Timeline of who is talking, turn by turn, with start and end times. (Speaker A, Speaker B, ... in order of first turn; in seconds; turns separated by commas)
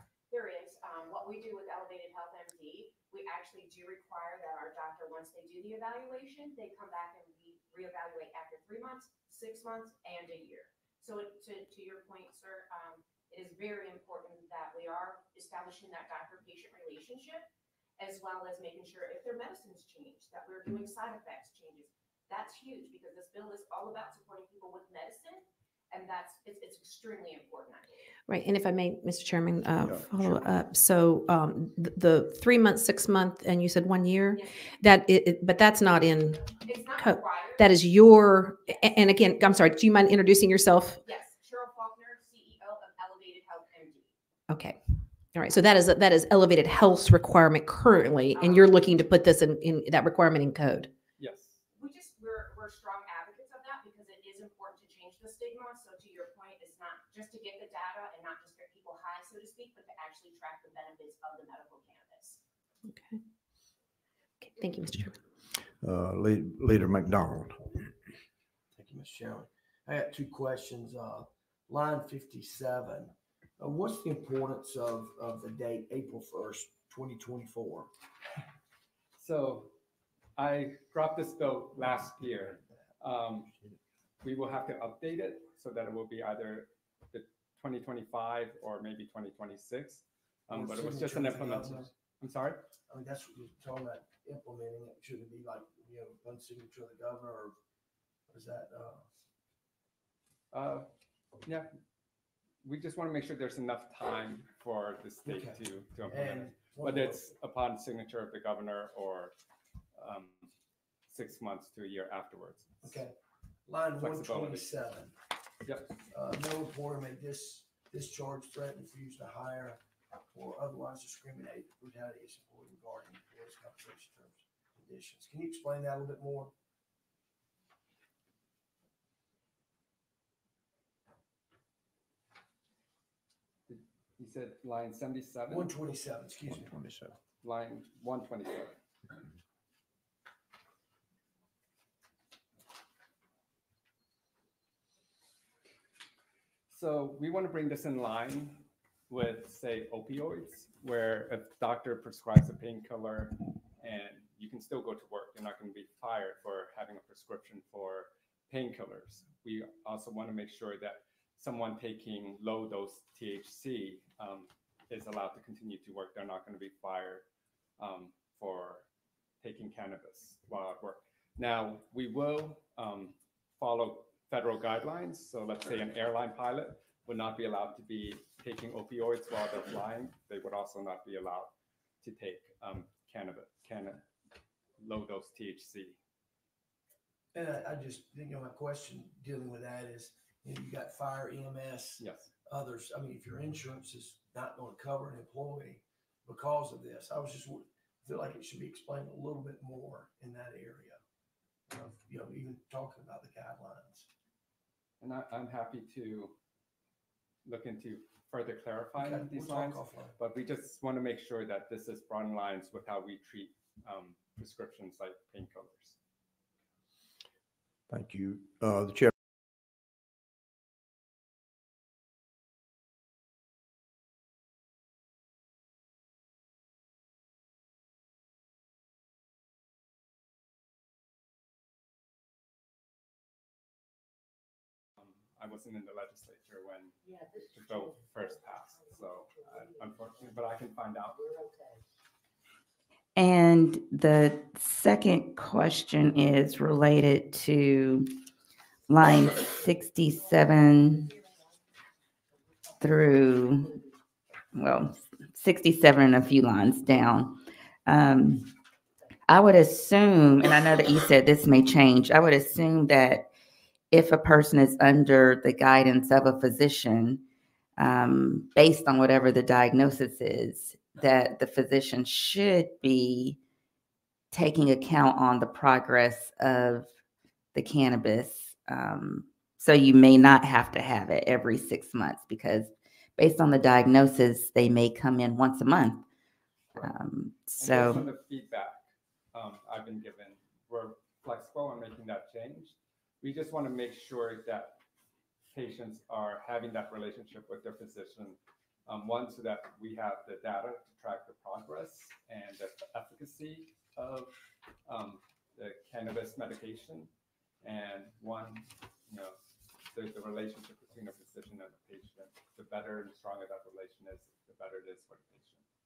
Speaker A: 0.3-17.5, Speaker A: 18.0-27.9, Speaker B: 28.3-41.0, Speaker C: 29.8-30.4, Speaker A: 34.3-34.6, Speaker A: 36.6-37.7, Speaker A: 41.0-44.1, Speaker B: 44.5-44.8, Speaker B: 45.3-50.9, Speaker A: 48.4-48.9, Speaker D: 51.2-51.6, Speaker A: 51.8-62.4, Speaker B: 62.9-63.2, Speaker B: 64.4-65.2, Speaker C: 65.8-67.7, Speaker E: 68.8-77.9, Speaker D: 79.2-79.7, Speaker D: 80.4-83.5, Speaker D: 84.2-92.7, Speaker E: 90.5-91.9, Speaker E: 92.9-97.5, Speaker E: 98.3-99.0, Speaker D: 100.5-100.9, Speaker D: 102.6-109.3, Speaker E: 105.2-107.3, Speaker D: 110.0-110.5, Speaker D: 111.1-113.0, Speaker E: 112.8-113.2, Speaker E: 113.7-115.2, Speaker D: 114.0-114.7, Speaker D: 115.7-115.9, Speaker E: 116.1-119.8, Speaker E: 120.3-126.5, Speaker D: 133.7-135.7, Speaker E: 135.5-136.7, Speaker C: 136.7-137.2, Speaker D: 137.4-138.8, Speaker D: 146.7-167.2, Speaker D: 167.8-168.8, Speaker D: 169.4-184.0, Speaker D: 184.8-186.0, Speaker E: 187.3-201.0, Speaker D: 192.0-192.3, Speaker E: 201.7-204.1, Speaker D: 205.0-206.3, Speaker D: 207.5-216.0, Speaker E: 209.0-210.2, Speaker C: 217.9-219.1, Speaker D: 235.0-241.3, Speaker F: 243.2-248.2, Speaker F: 248.9-251.2, Speaker F: 252.8-253.8, Speaker F: 254.5-258.5, Speaker F: 259.3-263.3, Speaker F: 263.9-267.2, Speaker F: 267.8-273.4, Speaker F: 274.3-276.9, Speaker F: 277.5-286.1, Speaker F: 286.8-288.1, Speaker D: 287.6-294.8, Speaker D: 295.5-304.3, Speaker D: 304.9-307.1, Speaker D: 307.6-309.4, Speaker D: 309.9-315.6